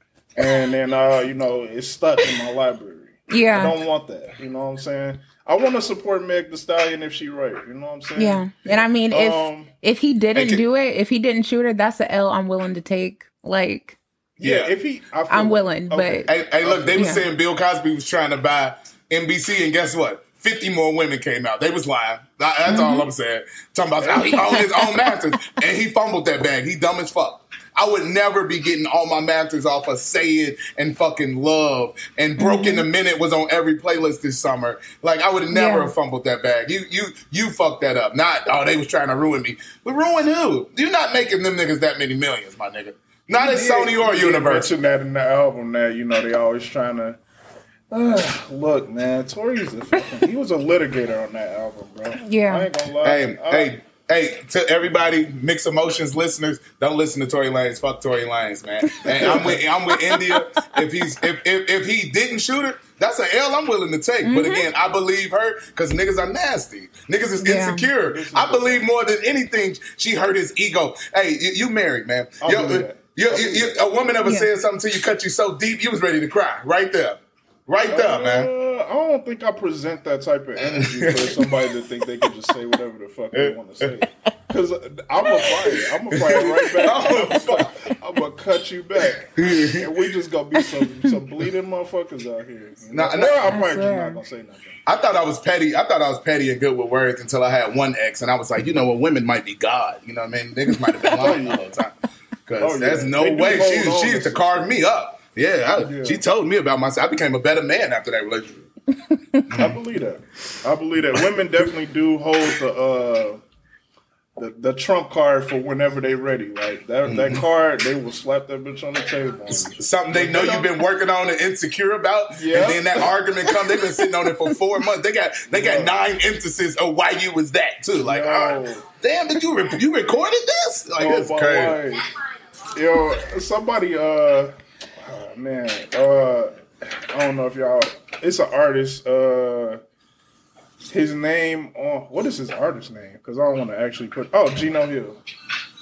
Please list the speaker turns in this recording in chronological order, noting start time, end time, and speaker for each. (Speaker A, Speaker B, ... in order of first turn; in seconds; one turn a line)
Speaker A: 0.4-9.7
Speaker B: 3.3-3.8
Speaker B: 8.2-14.0
Speaker A: 14.4-17.1
Speaker C: 14.4-14.7
Speaker B: 15.3-16.3
Speaker C: 16.3-44.7
Speaker B: 17.0-17.2
Speaker B: 22.7-23.1
Speaker A: 24.0-24.4
Speaker B: 24.4-25.1
Speaker B: 32.4-32.8
Speaker B: 35.5-35.9
Speaker A: 43.4-47.2
Speaker A: 47.9-53.7
Speaker B: 52.2-52.7
Speaker C: 53.0-78.5
Speaker B: 58.9-60.6
Speaker A: 59.1-59.6
Speaker B: 64.2-64.7
Speaker B: 67.4-67.9
Speaker A: 68.0-68.9
Speaker A: 72.4-74.2
Speaker B: 74.2-74.5
Speaker A: 77.9-94.8
Speaker C: 80.6-81.5
Speaker C: 83.3-83.9
Speaker C: 86.2-87.9
Speaker C: 89.4-89.9
Speaker C: 92.9-93.5
Speaker B: 93.5-94.2
Speaker C: 94.9-102.0
Speaker A: 101.2-101.8
Speaker C: 102.5-108.7
Speaker A: 102.6-104.7
Speaker A: 105.8-106.2
Speaker C: 109.5-109.8
Speaker A: 109.5-113.4
Speaker A: 114.4-120.7
Speaker C: 117.1-117.4
Speaker C: 119.8-131.8
Speaker A: 122.3-123.1
Speaker A: 125.5-125.9
Speaker A: 128.0-128.9
Speaker A: 131.0-132.1
Speaker A: 132.7-139.8
Speaker A: 140.9-145.2